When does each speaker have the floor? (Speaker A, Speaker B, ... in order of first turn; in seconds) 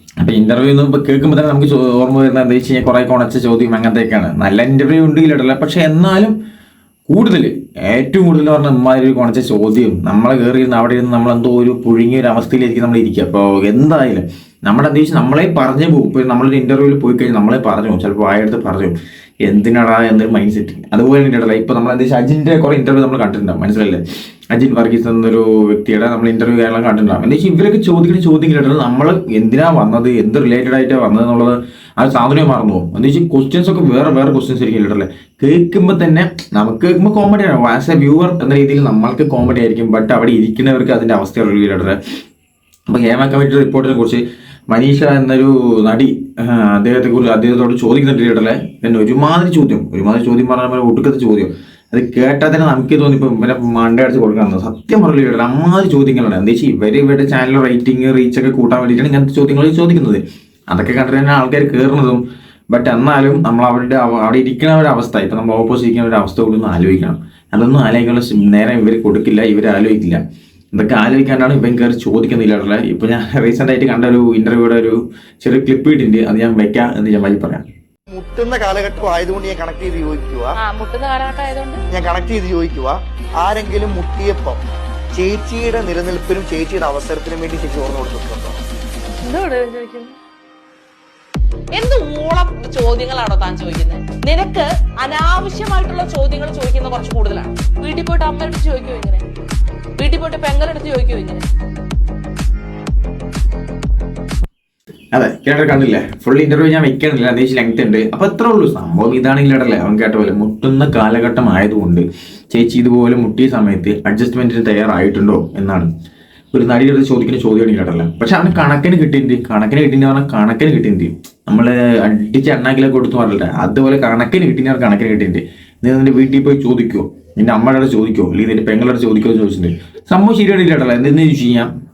Speaker A: 0.2-6.4, 7.1-42.0, 42.9-70.2, 70.7-77.6, 105.1-115.9, 116.5-131.7
Speaker B: 78.1-80.6, 81.9-88.6
Speaker C: 80.6-81.8, 89.2-90.1, 91.8-99.2, 100.0-101.4